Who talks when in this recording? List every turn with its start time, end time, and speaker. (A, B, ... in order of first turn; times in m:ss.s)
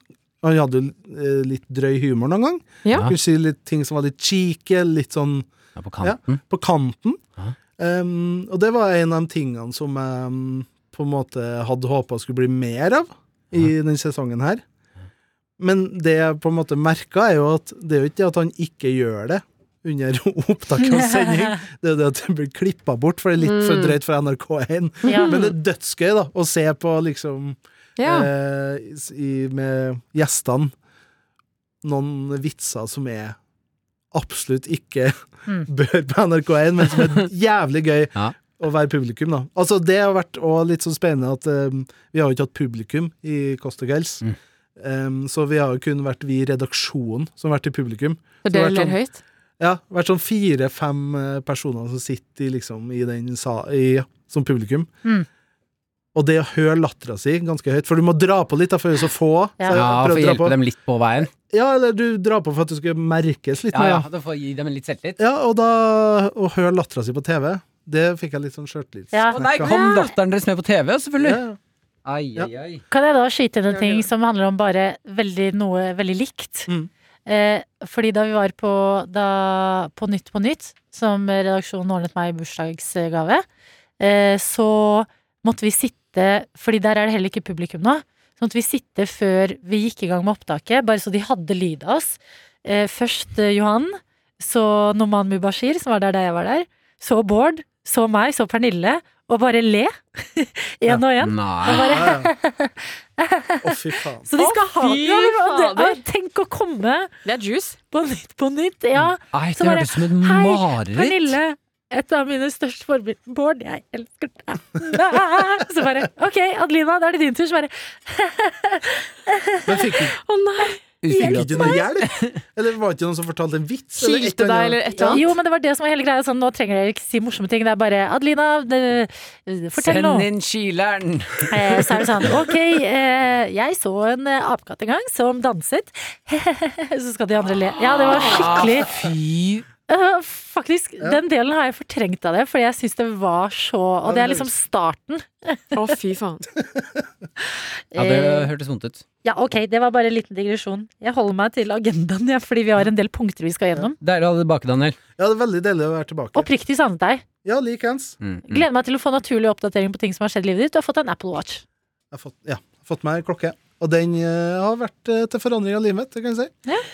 0:00.4-0:05.5 A
0:02.8-0:03.1 B
0:05.8-0:06.4 C
0:06.0-0:07.2 A
0:07.8-0:14.6 A
0:15.6-0:30.7 A
0:23.4-0:24.0 B
0:25.1-0:25.4 D
0:25.1-0:25.5 B
0:28.0-0:28.3 B
0:31.8-0:33.4 A
0:34.1-0:44.2 A
0:44.8-0:49.0 A
0:48.4-0:49.2 B
0:49.6-0:54.9 A
0:56.1-1:00.6 A
0:59.7-1:01.3 C
1:01.3-1:04.1 A
1:03.7-1:05.2 C
1:05.2-1:09.8 A
1:09.1-1:10.0 D
1:09.3-1:11.4 C
1:09.6-1:10.0 B
1:11.2-1:11.6 A
1:12.0-1:12.8 C
1:12.9-1:16.7 D
1:13.8-1:14.0 B
1:17.2-1:23.4 D
1:24.0-1:47.1 D
1:40.9-1:42.0 C
1:41.7-1:42.3 A
1:43.6-1:44.3 A
1:44.4-1:46.0 B
1:47.2-1:47.8 B
1:47.9-2:00.0 D
1:49.3-1:51.4 C
1:59.6-2:00.2 A
2:00.2-2:00.8 B
2:01.0-2:02.4 C
2:01.1-2:05.2 A
2:04.0-2:05.2 B
2:05.0-2:10.3 D
2:09.8-2:12.3 C
2:11.5-2:19.1 D
2:18.0-2:19.6 C
2:19.9-2:25.8 D
2:24.0-2:24.5 A
2:25.7-2:26.4 B
2:26.6-2:27.0 A
2:27.9-2:28.5 D
2:28.0-2:29.0 C
2:29.2-2:34.0 D
2:34.0-2:35.0 C
2:35.2-2:36.5 A
2:36.4-2:37.2 D
2:37.4-2:38.2 A
2:38.2-2:38.6 C
2:38.5-2:41.6 D
2:42.1-2:46.5 A